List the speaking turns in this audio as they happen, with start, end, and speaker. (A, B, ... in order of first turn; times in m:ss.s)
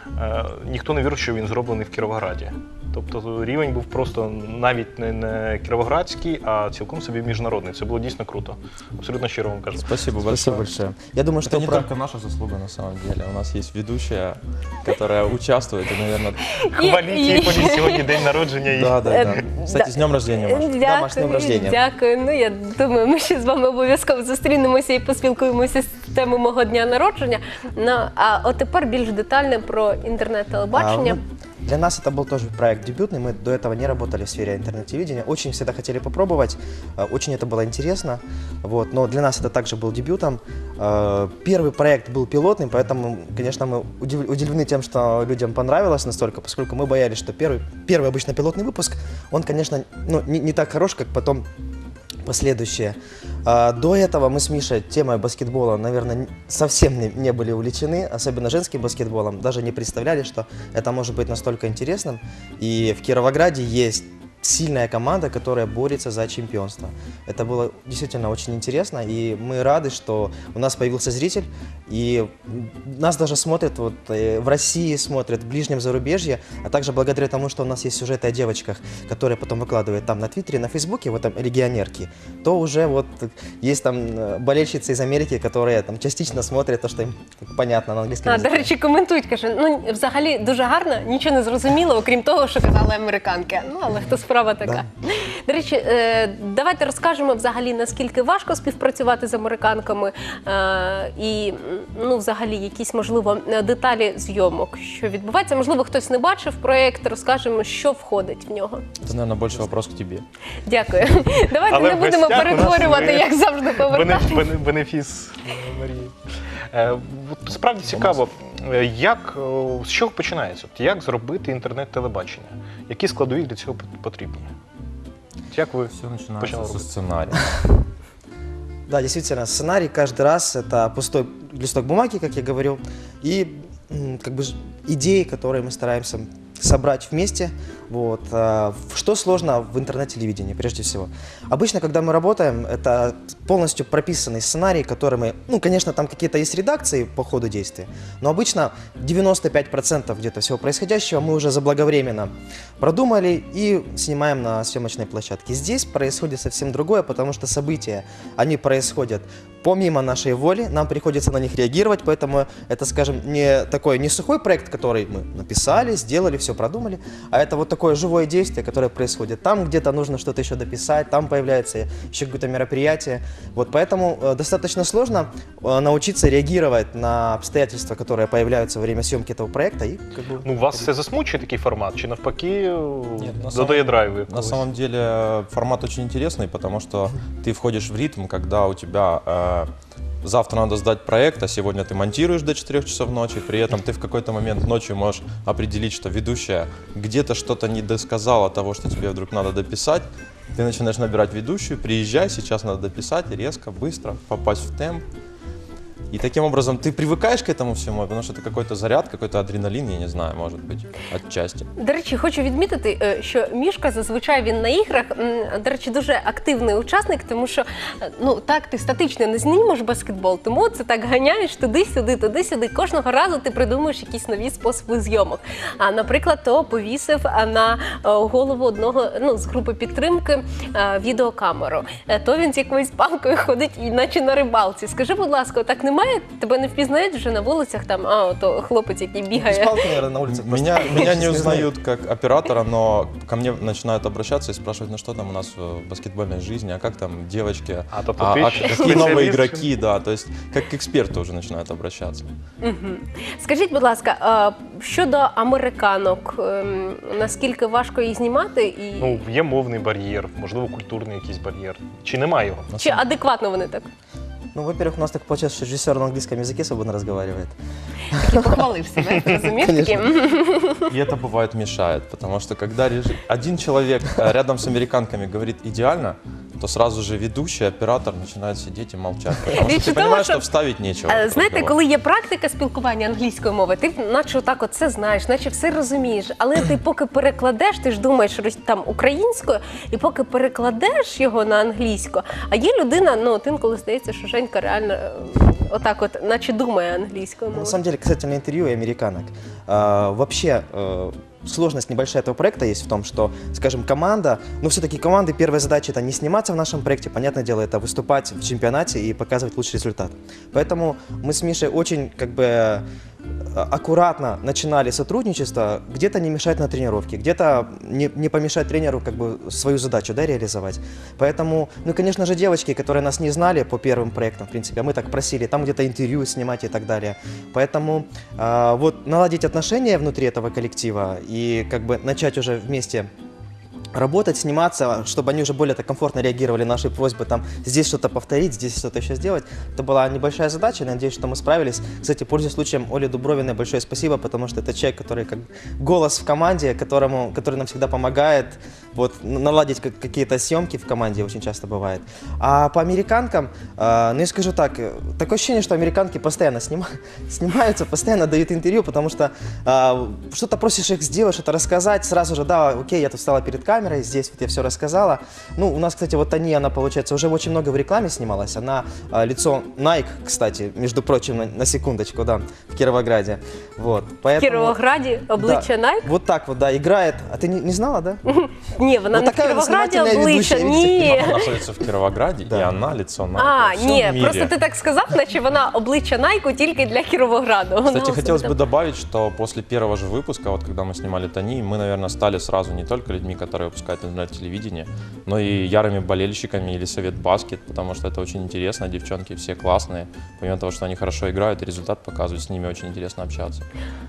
0:00.2-0:10.5 A
0:09.8-0:10.7 B
0:10.2-0:11.9 C
0:11.4-0:16.6 B
0:16.5-0:18.1 D
0:16.6-0:19.4 A
0:18.7-0:20.7 B
0:19.1-0:31.2 D
0:20.8-0:21.8 C
0:30.7-0:51.5 C
0:52.2-1:28.7 C
1:28.3-1:48.8 D
1:49.0-1:50.2 B
1:50.7-1:54.5 D
1:51.7-1:56.2 A
1:56.7-2:04.5 A
1:57.9-1:58.2 B
2:05.5-2:06.9 A
2:05.9-2:07.4 B
2:08.9-3:00.9 C
3:00.4-3:04.6 A
3:03.2-3:09.7 B
3:10.2-3:25.0 B
3:26.1-3:31.7 B
3:31.8-3:59.7 D
3:59.3-4:01.7 C
4:00.3-4:12.3 B
4:07.9-4:09.7 A
4:12.6-4:19.2 D
4:19.0-4:22.7 A
4:22.7-4:23.0 B
4:22.8-4:23.9 D
4:24.5-4:27.6 C
4:28.1-4:28.6 C
4:28.1-4:30.9 D
4:29.2-4:30.1 C
4:30.9-4:41.8 B
4:39.5-4:40.5 D
4:41.1-4:57.8 D
4:57.5-5:12.8 C
5:13.5-5:33.1 C
5:33.9-6:14.8 C
6:14.4-6:16.1 D
6:15.4-6:18.2 C
6:18.3-6:21.4 D
6:19.1-6:21.4 C
6:21.0-6:24.5 B
6:23.4-6:28.6 D
6:27.8-6:43.6 B